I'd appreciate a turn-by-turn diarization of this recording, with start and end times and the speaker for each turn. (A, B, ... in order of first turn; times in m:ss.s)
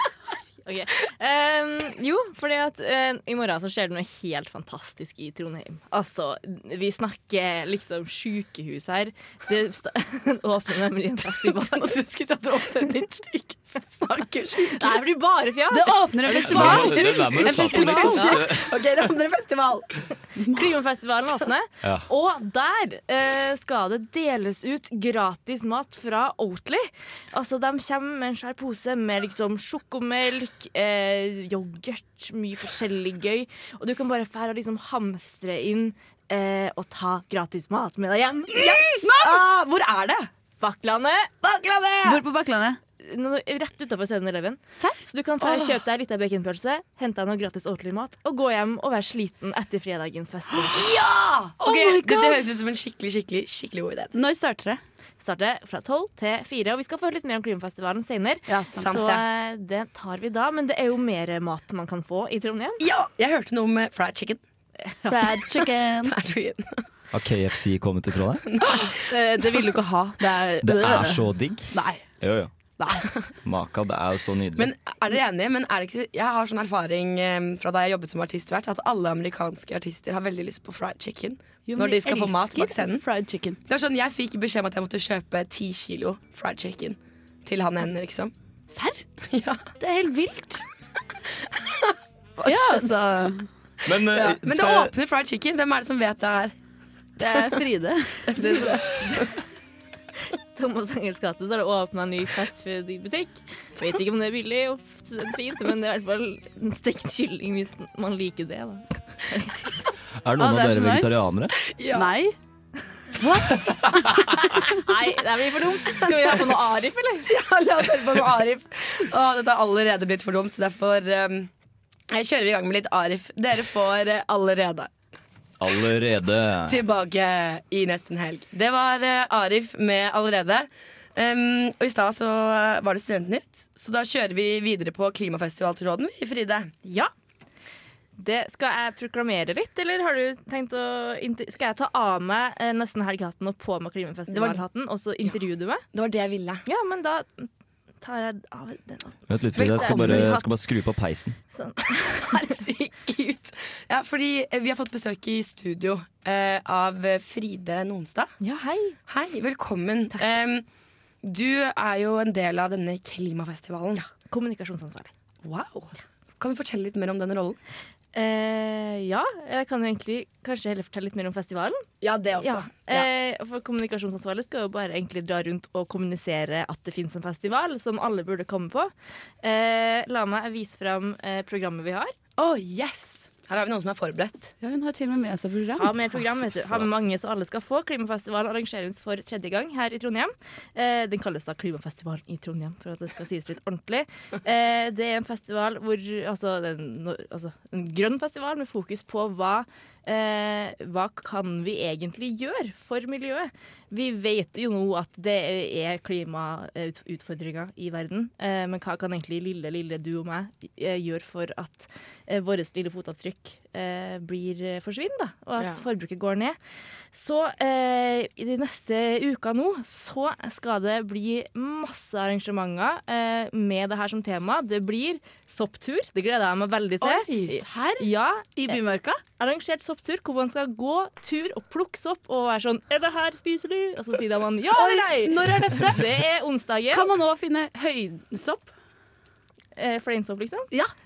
0:00.6-0:11.9 A
0:11.4-0:15.1 B
0:14.8-0:16.8 A
0:15.7-0:18.4 C
0:16.3-0:18.7 D
0:16.5-0:19.9 B
0:18.0-0:18.4 A
0:20.4-0:20.7 C
0:20.5-0:39.1 A
0:21.8-0:22.1 D
0:38.5-0:40.3 B
0:40.6-0:41.3 A
0:41.4-0:42.2 B
0:42.0-0:42.8 C
0:43.0-0:50.8 A
0:44.7-0:45.0 C
0:45.4-0:45.8 B
0:50.7-0:54.1 B
0:51.6-0:52.5 C
0:54.1-0:54.8 C
0:55.2-1:02.8 A
0:58.5-0:58.9 C
0:58.8-0:59.2 B
1:02.8-1:04.4 B
1:04.9-1:05.2 A
1:05.1-1:06.2 C
1:06.0-1:06.8 B
1:07.1-1:08.5 D
1:08.5-1:09.6 B
1:08.9-1:12.1 C
1:10.6-1:12.5 D
1:12.8-1:13.3 C
1:13.4-1:14.7 D
1:14.6-1:23.0 B
1:21.7-1:23.6 C
1:23.7-1:28.3 B
1:28.7-1:29.0 C
1:29.3-1:29.7 B
1:29.8-1:30.6 C
1:31.6-1:32.9 B
1:32.4-1:33.5 C
1:33.8-1:34.9 D
1:34.1-1:36.6 B
1:37.2-1:38.4 C
1:37.2-1:37.6 B
1:38.3-1:39.3 B
1:38.4-1:39.4 A
1:40.5-1:49.9 A
1:50.2-1:51.6 D
1:50.4-1:51.3 C
1:51.7-1:52.1 B
1:51.9-1:52.4 C
1:53.2-1:53.9 C
1:54.5-1:57.3 A
1:57.3-2:01.5 B
2:02.1-2:04.9 B
2:05.6-2:06.8 D
2:06.7-2:16.7 B
2:16.8-2:17.1 A
2:18.2-2:25.8 A
2:24.3-2:24.6 B
2:25.9-2:26.6 B
2:26.7-2:27.5 A
2:28.0-2:30.5 A
2:29.3-2:31.4 D
2:29.6-2:30.3 B
2:31.5-2:32.7 A
2:32.3-2:38.3 B
2:38.4-2:39.0 A
2:39.1-2:40.7 B
2:41.2-2:44.1 B
2:44.3-2:45.1 A
2:45.4-2:47.6 B
2:48.1-2:51.9 A
2:52.0-2:53.1 B
2:52.4-2:58.9 A
2:59.4-3:02.1 A
3:02.4-3:04.5 B
3:04.6-3:06.0 C
3:05.8-3:36.6 A
3:37.1-3:48.8 A
3:47.0-3:49.2 C
3:49.4-3:57.1 A
3:54.8-3:56.0 B
3:56.9-3:58.7 C
3:59.8-4:00.7 A